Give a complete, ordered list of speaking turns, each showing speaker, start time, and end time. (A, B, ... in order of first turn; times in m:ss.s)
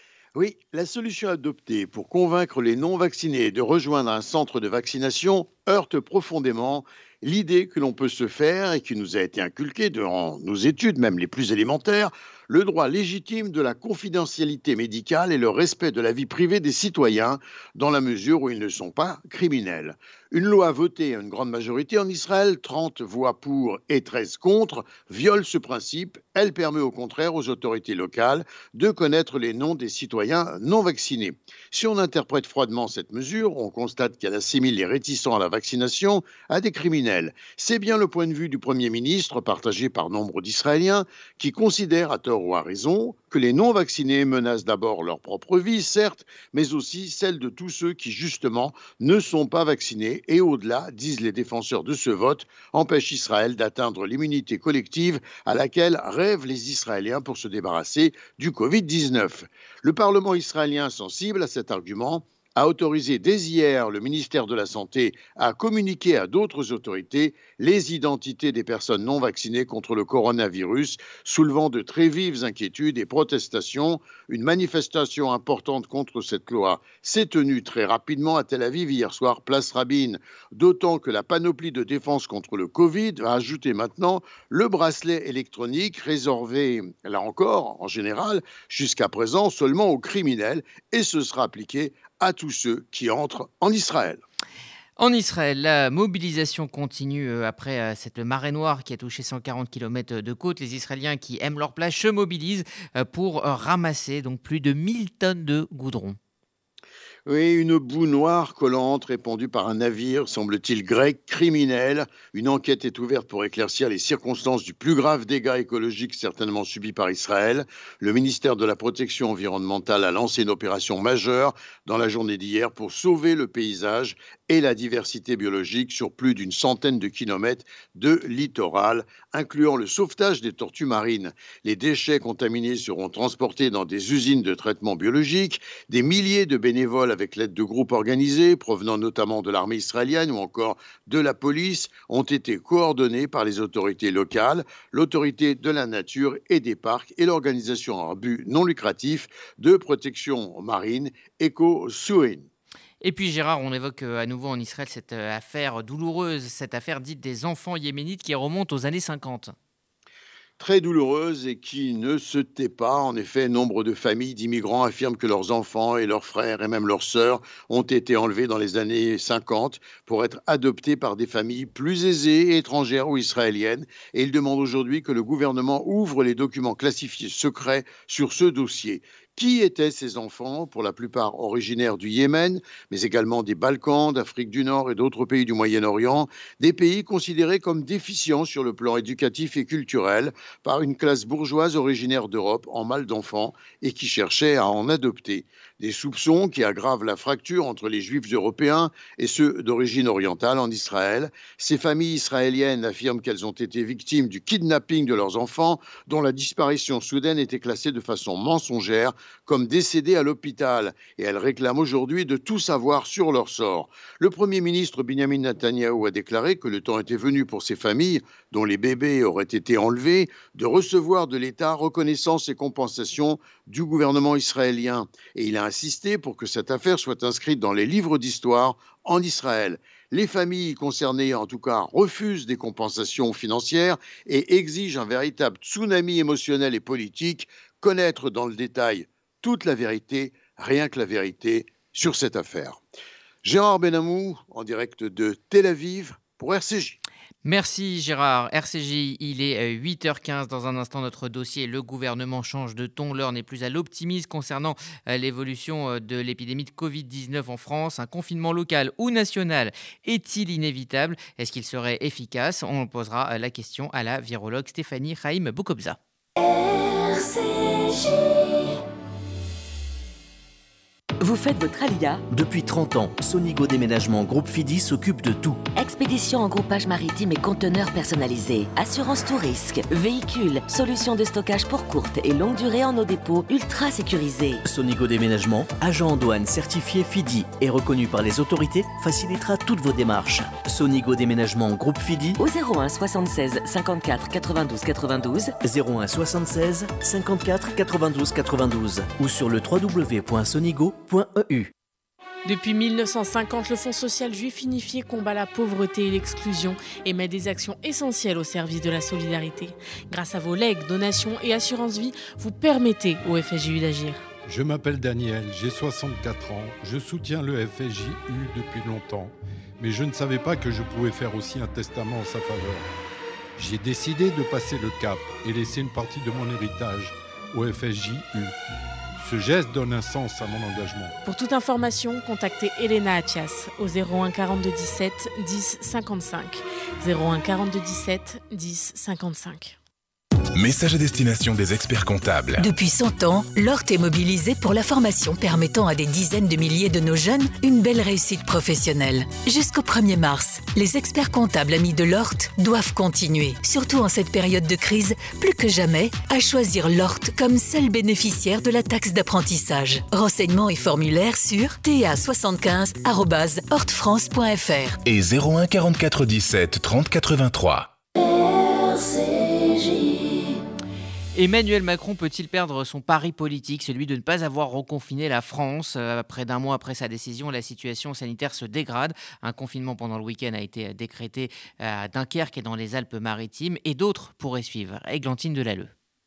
0:00.4-1:34.2 A
1:35.0-1:46.2 B
1:47.3-2:32.5 A
2:33.0-2:39.5 B
2:40.6-4:02.8 A
4:03.4-4:07.0 A
4:07.4-4:26.0 B
4:31.2-4:32.2 C
4:32.3-4:35.6 D
4:35.8-4:44.6 C
4:44.6-4:52.4 D
4:52.4-4:55.5 C
4:55.6-5:01.7 D
5:02.4-5:14.3 E
5:14.5-5:22.9 F
5:23.6-5:28.6 F
5:29.2-5:31.2 F
5:31.2-5:39.8 E
5:40.6-5:42.7 G
5:42.6-6:05.0 H
6:05.0-6:07.9 G
6:11.3-6:25.9 B